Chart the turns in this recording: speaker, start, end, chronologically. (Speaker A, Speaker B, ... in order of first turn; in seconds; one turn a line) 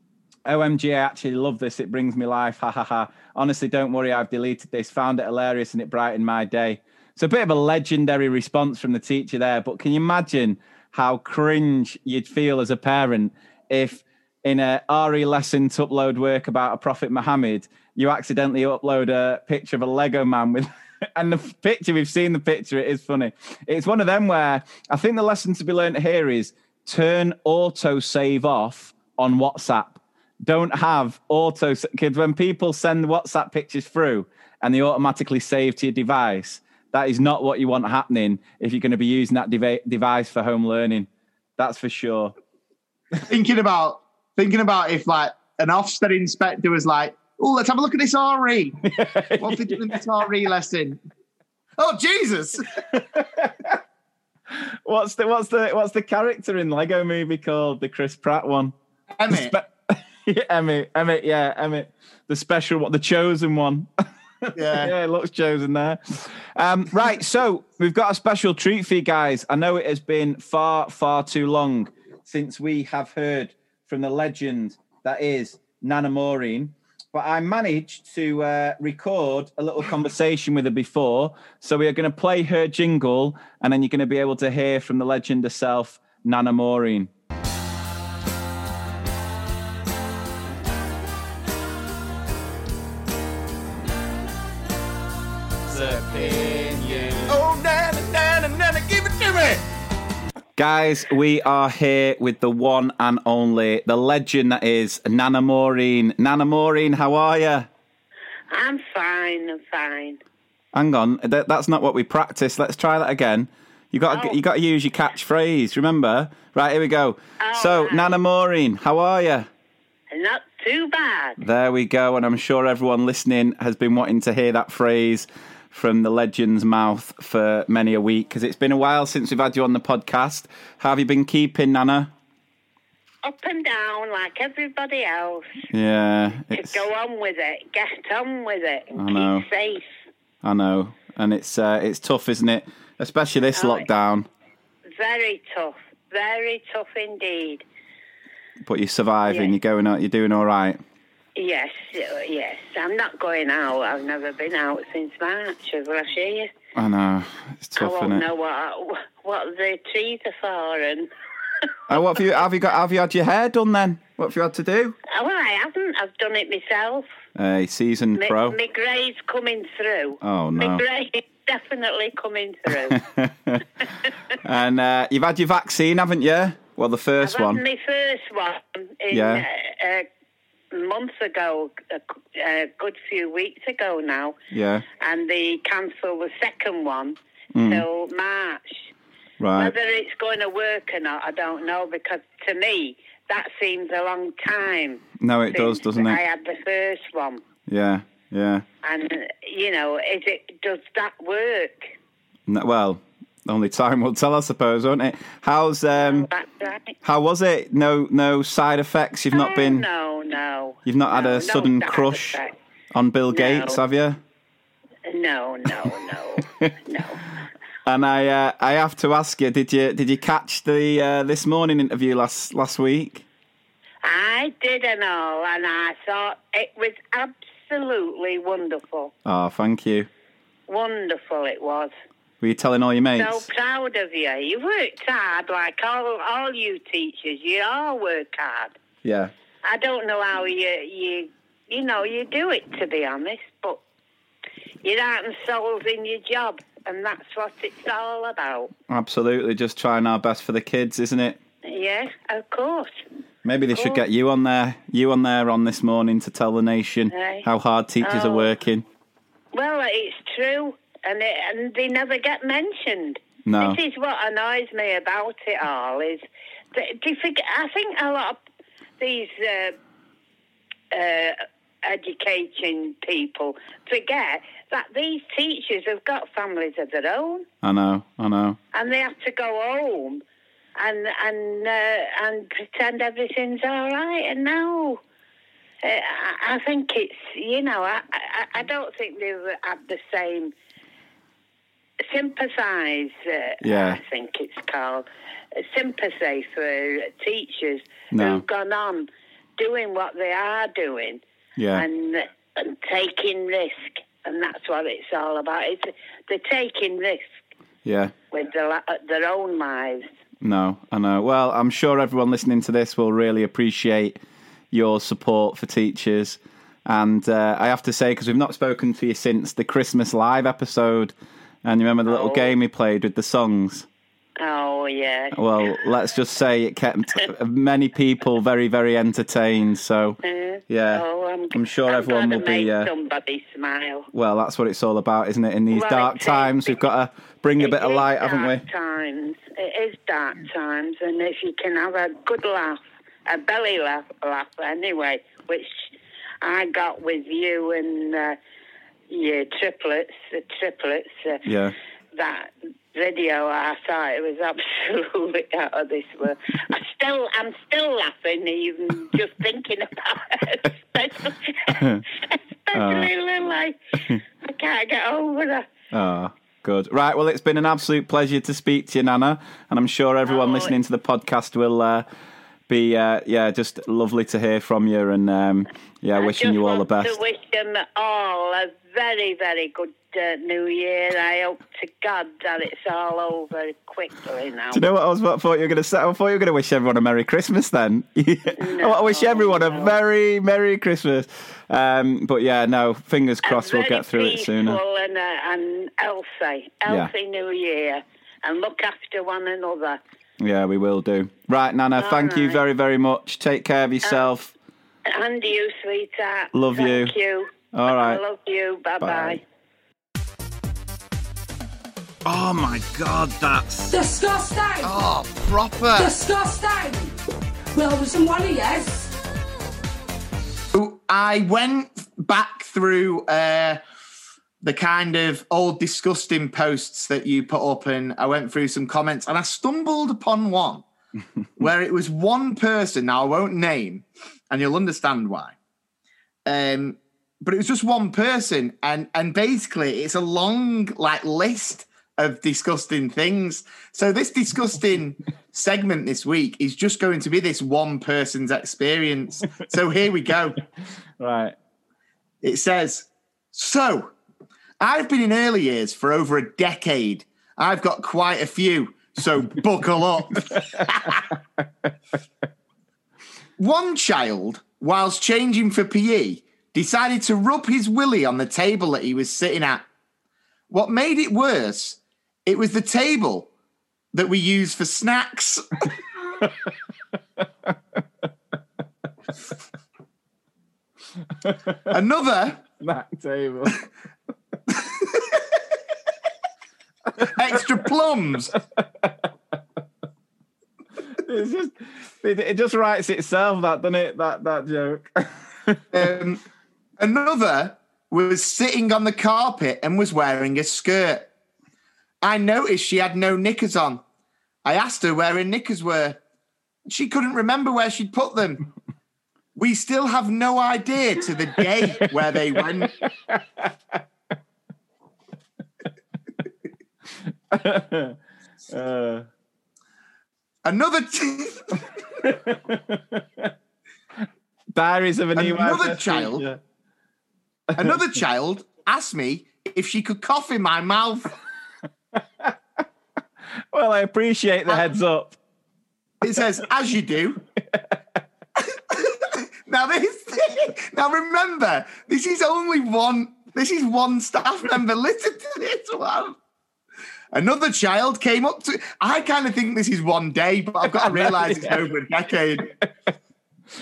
Speaker A: 0.5-42.3
Speaker B: 43.2-51.0
Speaker A: 48.9-50.0
Speaker B: 51.8-52.6
Speaker A: 52.9-53.8
Speaker A: 54.5-58.7
Speaker B: 59.1-59.6
Speaker A: 59.3-63.9
Speaker A: 64.5-87.1
Speaker B: 64.6-64.9
Speaker A: 95.7-97.4
Speaker B: 96.1-96.7
Speaker B: 97.3-99.7
Speaker A: 100.6-107.7
Speaker C: 108.5-110.2
Speaker A: 110.7-119.5
Speaker C: 114.1-114.4
Speaker C: 117.4-118.1
Speaker C: 120.1-121.4
Speaker A: 121.4-132.1
Speaker C: 133.2-135.5
Speaker A: 135.7-136.8
Speaker C: 136.5-139.8
Speaker A: 139.0-139.4
Speaker A: 140.4-144.3
Speaker C: 143.6-143.9
Speaker C: 145.0-147.7
Speaker A: 148.7-150.8
Speaker C: 149.3-149.5
Speaker C: 151.4-156.5
Speaker A: 156.8-158.2
Speaker C: 157.8-161.1
Speaker A: 161.9-165.0
Speaker C: 165.1-167.1
Speaker A: 167.4-168.6
Speaker C: 168.2-173.0
Speaker A: 170.2-170.8
Speaker A: 172.9-173.6
Speaker A: 174.4-177.6
Speaker C: 177.2-180.1
Speaker A: 179.1-179.4
Speaker C: 180.7-184.4
Speaker A: 184.5-184.8
Speaker C: 185.0-188.8
Speaker A: 187.5-187.8
Speaker A: 189.4-189.7
Speaker C: 189.6-197.4
Speaker A: 195.2-196.2
Speaker A: 197.7-198.7
Speaker C: 198.8-201.9
Speaker A: 202.5-206.3
Speaker C: 206.0-206.9
Speaker A: 207.0-209.8
Speaker C: 209.3-212.6
Speaker A: 210.9-212.4
Speaker A: 212.9-214.2
Speaker C: 213.3-213.8
Speaker C: 215.1-217.2
Speaker A: 215.7-216.7
Speaker A: 217.9-223.3
Speaker C: 224.0-229.1
Speaker A: 229.2-230.1
Speaker C: 230.7-231.9
Speaker A: 232.4-233.5
Speaker C: 233.2-238.8
Speaker A: 239.0-239.3
Speaker C: 239.7-243.8
Speaker C: 244.8-248.7
Speaker A: 248.9-251.4
Speaker C: 251.7-252.9
Speaker A: 253.4-258.9
Speaker C: 253.7-254.0
Speaker C: 257.1-257.4
Speaker C: 258.0-258.5
Speaker C: 259.5-266.2
Speaker A: 263.4-263.8
Speaker C: 266.8-268.4
Speaker C: 269.0-269.8
Speaker C: 270.9-277.5
Speaker A: 277.6-278.6
Speaker C: 278.7-280.2
Speaker C: 280.8-285.0
Speaker C: 285.8-290.5
Speaker C: 292.1-301.2
Speaker A: 293.6-294.0
Speaker A: 298.1-298.4
Speaker A: 301.6-301.9
Speaker C: 301.7-307.2
Speaker A: 307.9-308.1
Speaker C: 308.3-310.1
Speaker A: 310.4-314.2
Speaker A: 314.7-321.1
Speaker A: 321.6-323.9
Speaker C: 322.1-322.5
Speaker C: 324.4-325.8
Speaker A: 325.3-332.9
Speaker C: 330.2-334.1
Speaker A: 334.1-338.6
Speaker C: 335.7-336.8
Speaker C: 337.6-345.8
Speaker C: 346.4-348.4
Speaker C: 349.1-351.4
Speaker A: 351.5-351.8
Speaker C: 352.1-365.7
Speaker A: 361.8-362.0
Speaker A: 362.7-363.1
Speaker A: 365.9-372.1
Speaker C: 370.3-370.7
Speaker A: 372.7-377.2
Speaker C: 376.2-384.8
Speaker A: 384.7-394.8
Speaker C: 388.6-390.0
Speaker C: 393.4-400.0
Speaker A: 400.4-404.5
Speaker C: 402.0-402.6
Speaker C: 405.1-409.4
Speaker A: 406.5-407.1
Speaker A: 407.7-408.2
Speaker A: 409.0-409.4
Speaker A: 412.2-414.0
Speaker D: 413.9-414.8
Speaker B: 414.8-416.2
Speaker D: 416.0-417.1
Speaker D: 417.8-419.1
Speaker B: 420.7-423.8
Speaker B: 424.6-430.9
Speaker B: 431.6-435.6
Speaker B: 436.5-450.6
Speaker A: 451.2-451.6
Speaker B: 452.4-454.1
Speaker B: 454.8-461.3
Speaker A: 460.6-461.4
Speaker B: 463.6-469.9
Speaker B: 470.7-473.5
Speaker B: 474.1-475.7
Speaker A: 481.4-481.9
Speaker B: 481.9-482.6
Speaker A: 482.8-483.8
Speaker B: 484.7-485.5
Speaker A: 487.2-487.6
Speaker B: 487.2-488.6
Speaker A: 488.6-489.2
Speaker A: 491.1-495.8
Speaker B: 495.9-496.4
Speaker B: 497.0-501.3
Speaker B: 502.2-504.0
Speaker B: 504.6-506.2
Speaker B: 506.9-508.6
Speaker B: 509.6-513.0
Speaker A: 512.9-513.7
Speaker A: 517.5-518.2
Speaker A: 518.7-519.3
Speaker B: 520.6-521.8
Speaker A: 522.2-523.5
Speaker A: 524.7-526.6
Speaker B: 525.4-526.5
Speaker B: 527.8-531.3
Speaker A: 533.7-535.4
Speaker B: 536.2-537.4
Speaker B: 538.6-546.4
Speaker B: 547.3-552.7
Speaker A: 550.9-551.8